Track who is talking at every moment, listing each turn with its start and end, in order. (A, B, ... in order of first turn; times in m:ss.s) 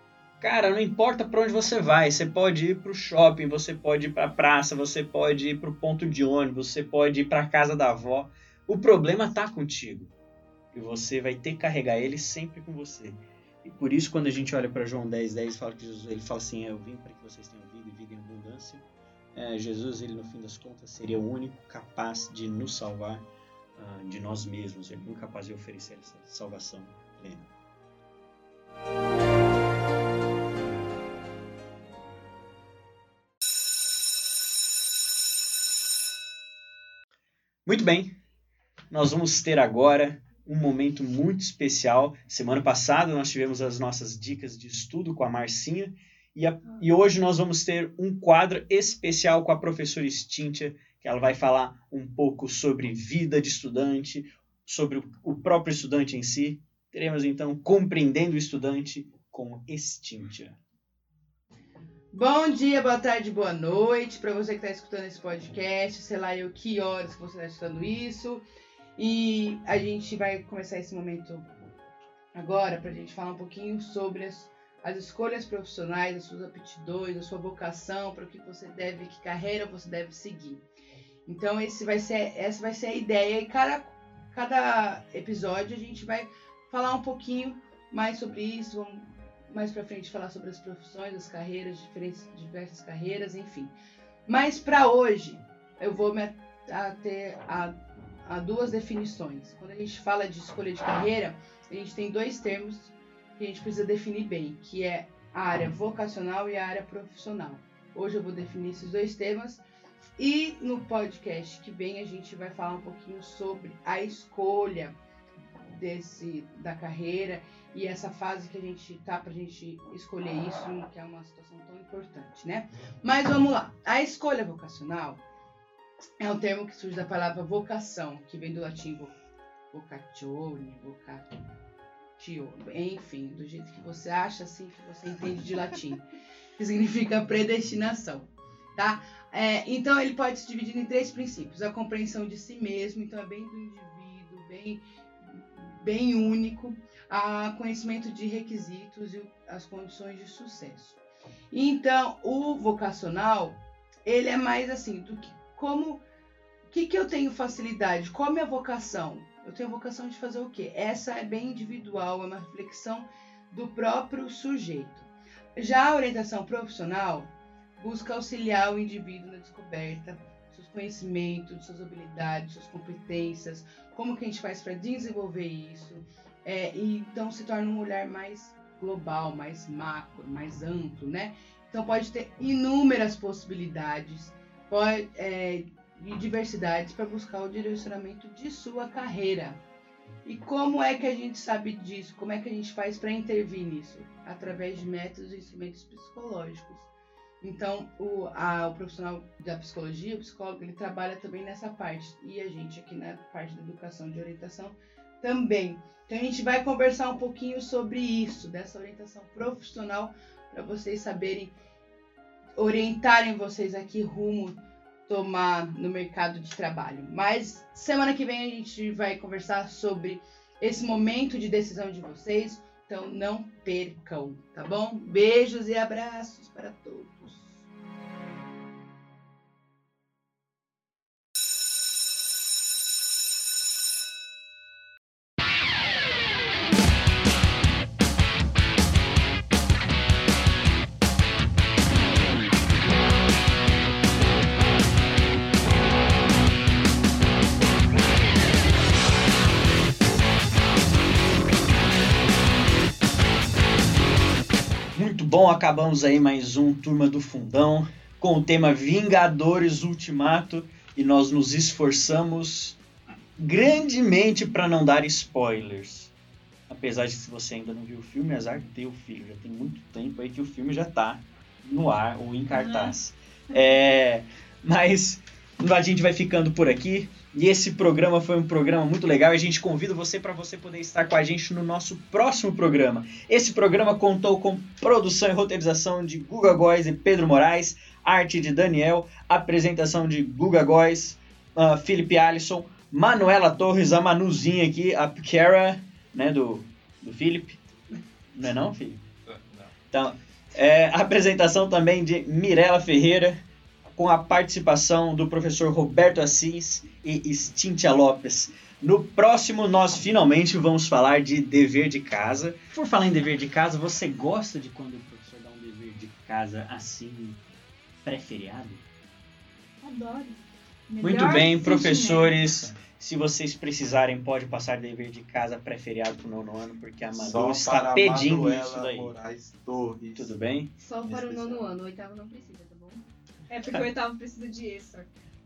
0:00.4-0:10.1 A
0:10.7-0:23.3 A
0:23.8-0:27.5 A
0:37.7-0:38.2 A
0:38.9-1:00.6 A
1:02.1-1:08.4 B
1:09.0-1:11.5 B
1:12.3-1:20.6 B
1:21.3-1:33.7 B
1:34.3-1:49.6 B
1:50.2-1:55.0 B
1:55.7-2:05.2 B
2:06.2-2:09.1 B
2:09.7-2:11.3 B
2:12.2-2:16.0 B
2:16.6-2:31.0 B
2:31.5-2:36.0 B
2:36.7-3:09.6 B
3:10.2-3:16.9 B
3:17.4-3:31.6 B
3:32.6-3:47.7 B
4:15.0-4:22.8 A
4:23.4-4:26.1 A
4:26.7-4:57.7 A
4:32.5-4:33.0 C
4:58.3-4:59.0 A
4:59.3-4:59.7 D
4:59.9-5:03.4 A
5:03.9-5:17.4 A
5:18.0-5:18.8 A
5:19.8-5:22.4 C
5:21.0-5:29.2 A
5:27.1-5:30.4 D
5:30.1-5:30.7 A
5:30.8-5:33.0 E
5:31.0-5:31.7 D
5:33.5-5:35.1 C